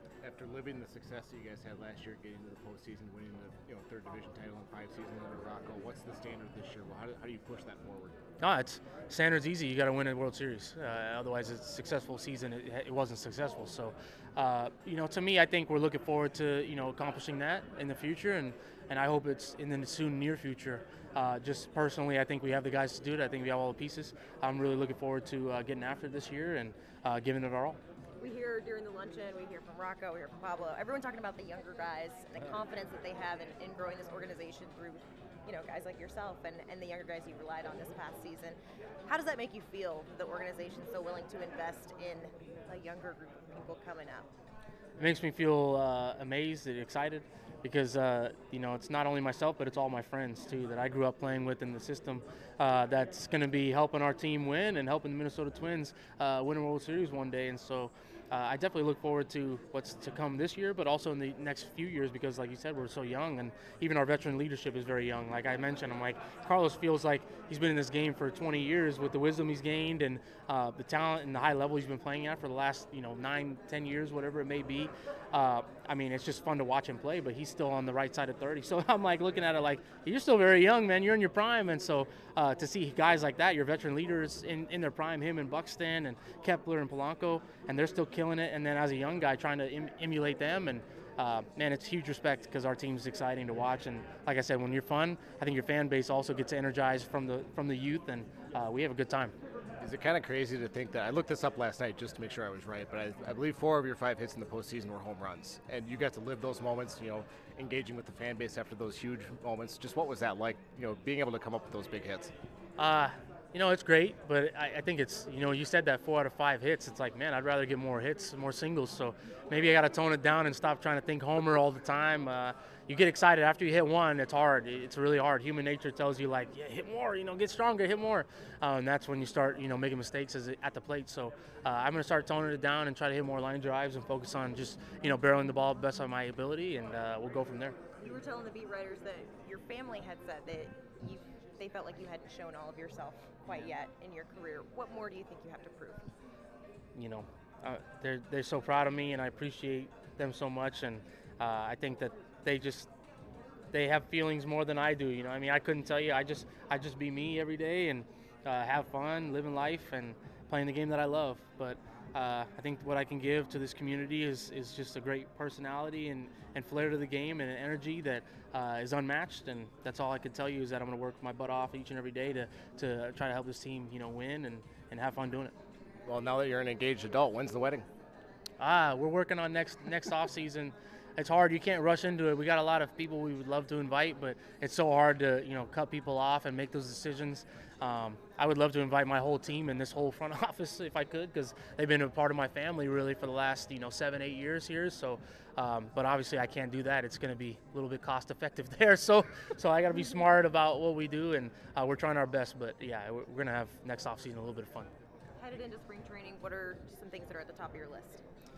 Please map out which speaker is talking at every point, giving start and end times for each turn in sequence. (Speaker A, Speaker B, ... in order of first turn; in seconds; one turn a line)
Speaker A: 0.2-8.2
Speaker B: 8.4-27.8
Speaker C: 28.2-44.3
Speaker B: 45.0-99.3
Speaker A: 99.8-112.3
Speaker B: 112.8-137.8
Speaker C: 138.0-146.1
Speaker B: 146.9-152.9
Speaker B: 153.7-175.5
Speaker A: 176.0-177.8
Speaker B: 178.6-204.9
Speaker C: 205.4-208.2